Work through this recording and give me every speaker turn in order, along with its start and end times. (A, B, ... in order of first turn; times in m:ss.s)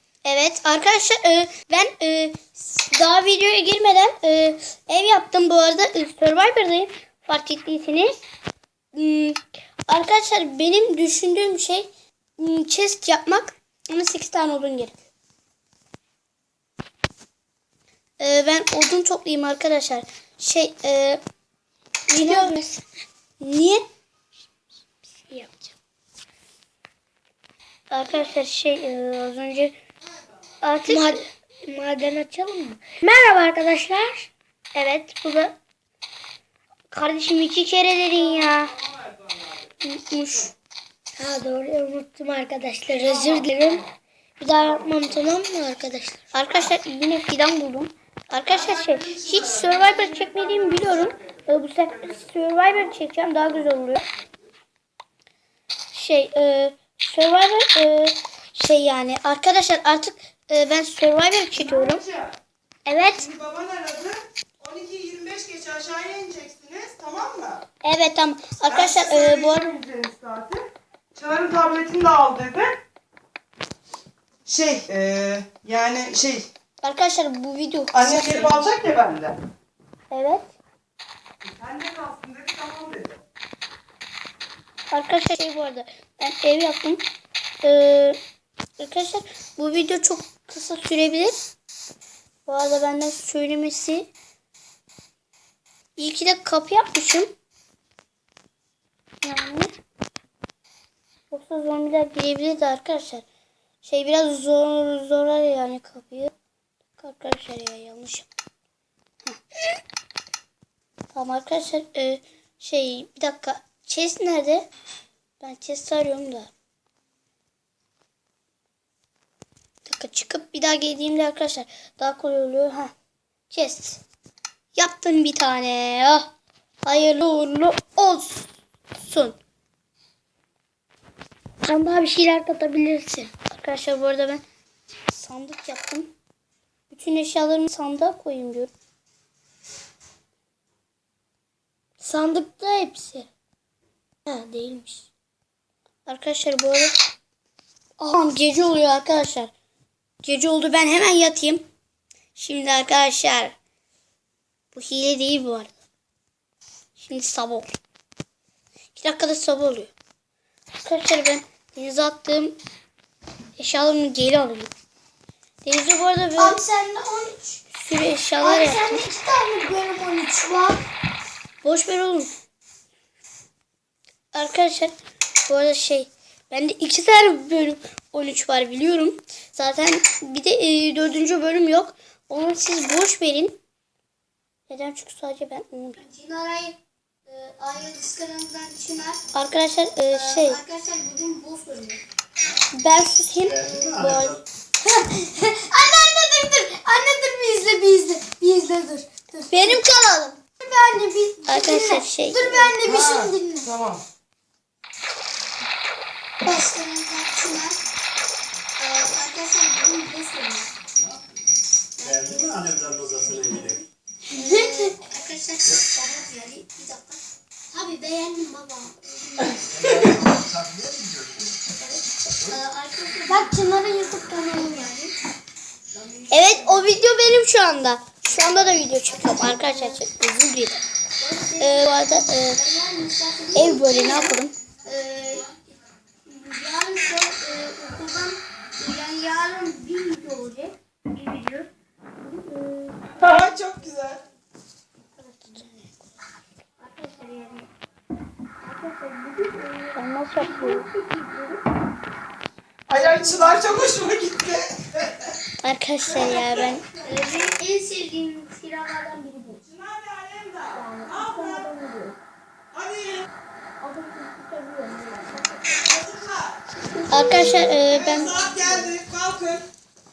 0:00.2-0:08.1 A
0:08.9-0:14.9 A
0:18.2-0:21.2 A
0:22.1-0:22.6 A
0:22.1-0:22.8 B
0:23.4-0:23.8 A
0:25.3-0:25.6 B
0:27.9-0:29.7 A
0:30.6-0:31.2 A
0:30.8-0:34.3 B
0:34.7-0:35.6 A
0:36.9-0:38.7 A
0:39.8-0:40.5 A
0:41.2-0:43.8 B
0:44.4-0:46.2 B
0:46.3-0:54.0 A
0:48.9-0:49.2 C
0:55.9-1:02.0 A
1:01.6-1:02.3 C
1:02.8-1:03.3 A
1:03.1-1:07.6 C
1:07.8-1:09.7 A
1:08.7-1:12.7 C
1:14.4-1:16.4 C
1:16.8-1:18.7 A
1:17.9-1:19.4 C
1:20.1-1:20.5 A
1:21.4-1:23.2 C
1:24.9-1:27.0 A
1:27.6-1:28.2 A
1:28.8-1:31.3 A
1:32.4-1:34.1 A
1:36.0-1:37.3 A
1:39.2-1:39.7 A
1:41.3-1:43.2 A
1:43.8-1:46.3 A
1:47.0-1:48.3 A
1:51.1-1:54.7 A
1:55.4-1:56.5 A
1:59.8-2:02.9 A
2:03.5-2:04.0 A
2:04.7-2:06.3 A
2:06.8-2:08.5 A
2:09.0-2:09.4 A
2:11.6-2:13.3 B
2:13.5-2:14.4 A
2:15.1-2:16.1 A
2:16.9-2:18.7 A
2:22.0-2:23.3 B
2:24.2-2:25.0 B
2:26.0-2:26.9 A
2:28.0-2:29.5 A
2:30.2-2:31.6 A
2:32.3-2:33.5 A
2:34.7-2:35.7 A
2:37.0-2:37.7 A
2:38.9-2:39.9 A
2:40.8-2:42.6 A
2:43.6-2:44.7 A
2:45.6-2:46.6 A
2:46.4-2:47.6 B
2:47.7-2:49.0 A
2:48.4-2:50.8 B
2:51.6-2:52.3 A
2:54.3-2:54.9 A
2:55.4-3:03.6 A
3:04.7-3:06.0 A
3:06.0-3:09.2 B
3:09.3-3:10.6 A
3:10.1-3:12.0 B
3:12.7-3:14.4 A
3:13.4-3:14.4 D
3:14.8-3:19.8 B
3:19.5-3:20.4 A
3:20.6-3:23.7 B
3:21.5-3:22.7 A
3:22.8-3:24.0 C
3:26.4-3:27.8 B
3:28.8-3:30.7 B
3:32.0-3:32.6 B
3:32.0-3:33.8 D
3:33.3-3:37.2 B
3:34.3-3:34.9 A
3:37.7-3:40.0 B
3:39.6-3:41.5 D
3:41.8-3:45.1 B
3:43.2-3:43.5 A
3:46.3-3:50.8 A
3:49.0-3:50.0 B
3:51.2-3:55.6 B
3:51.6-3:52.6 A
3:53.5-3:54.5 A
3:56.2-4:01.7 B
4:02.2-4:03.2 B
4:03.2-4:04.2 C
4:05.2-4:05.8 B
4:06.8-4:07.7 B
4:08.6-4:11.6 B
4:09.9-4:10.9 A
4:12.9-4:15.2 C
4:12.9-4:13.6 B
4:15.6-4:16.9 A
4:16.9-4:19.6 B
4:19.6-4:21.7 C
4:20.7-4:22.2 B
4:22.7-4:23.2 C
4:23.8-4:25.8 B
4:25.8-4:26.6 C
4:26.8-4:28.8 B
4:27.1-4:28.5 A
4:27.9-4:29.6 C